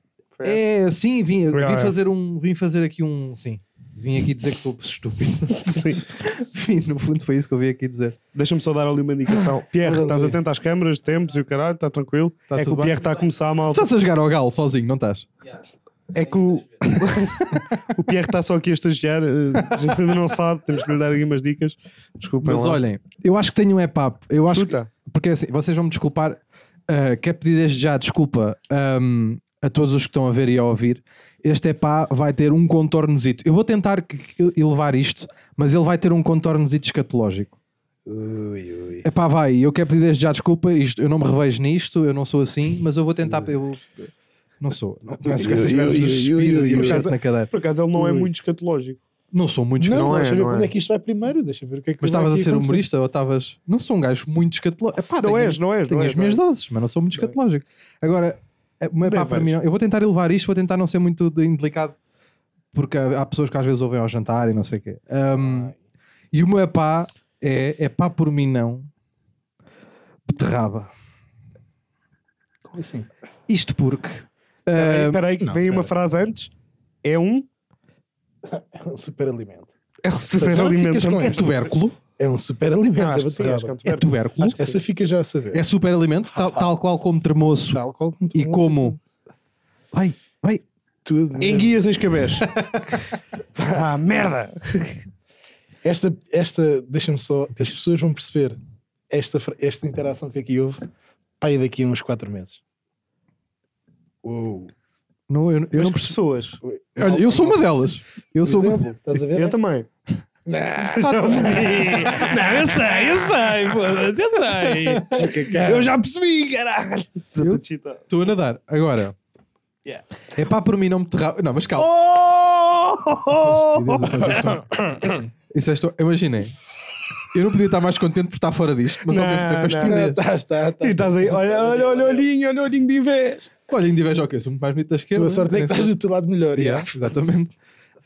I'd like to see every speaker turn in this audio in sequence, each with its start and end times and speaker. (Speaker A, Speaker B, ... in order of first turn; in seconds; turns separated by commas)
Speaker A: 0.4-0.6, Speaker B: 0.4-8.2, Speaker A: 1.5-1.9, Speaker A: 5.5-6.0, Speaker A: 8.3-13.9, Speaker C: 9.8-10.4, Speaker B: 12.5-13.1, Speaker B: 13.7-15.3, Speaker A: 16.1-22.8, Speaker B: 16.8-17.6, Speaker B: 22.4-37.6, Speaker A: 24.5-24.9, Speaker C: 38.1-39.1, Speaker B: 39.0-47.5, Speaker C: 45.2-47.1, Speaker A: 46.8-49.0, Speaker C: 47.9-48.3, Speaker B: 49.3-50.2, Speaker C: 49.8-52.8, Speaker A: 49.9-50.7, Speaker B: 52.0-62.0, Speaker A: 55.2-56.4, Speaker A: 59.0-59.6, Speaker B: 62.7-65.7, Speaker C: 65.4-65.7, Speaker B: 66.3-68.9, Speaker B: 70.3-70.9, Speaker C: 72.7-73.1, Speaker B: 73.5-75.2, Speaker A: 74.7-76.5, Speaker C: 75.4-75.9, Speaker A: 77.0-77.5, Speaker C: 78.5-79.7, Speaker A: 80.0-81.5, Speaker C: 80.5-81.5, Speaker B: 80.5-82.0, Speaker C: 82.2-83.8, Speaker A: 83.0-84.8, Speaker B: 83.8-84.6, Speaker C: 84.5-85.6, Speaker B: 85.5-87.8, Speaker C: 87.7-89.0, Speaker B: 88.3-89.0, Speaker B: 89.9-90.6, Speaker C: 91.0-91.8, Speaker A: 91.4-92.5, Speaker B: 92.5-92.9, Speaker A: 93.7-95.0, Speaker C: 95.8-98.6, Speaker C: 99.1-100.8, Speaker C: 101.4-102.6, Speaker C: 104.2-104.7, Speaker B: 105.3-106.2, Speaker A: 105.8-106.6, Speaker C: 106.6-107.7, Speaker B: 107.0-108.8, Speaker C: 108.4-109.6, Speaker A: 109.3-109.9, Speaker C: 110.5-112.2, Speaker A: 110.8-118.1, Speaker B: 110.9-112.4, Speaker C: 115.1-115.9, Speaker B: 117.4-119.2, Speaker B: 120.3-121.9, Speaker A: 121.8-124.4, Speaker B: 123.3-124.7, Speaker C: 124.3-125.1, Speaker B: 125.5-126.6, Speaker B: 127.3-130.2, Speaker A: 129.1-130.0, Speaker C: 129.8-132.2, Speaker A: 130.8-133.5, Speaker B: 133.7-135.9, Speaker C: 135.2-137.4, Speaker B: 136.6-137.5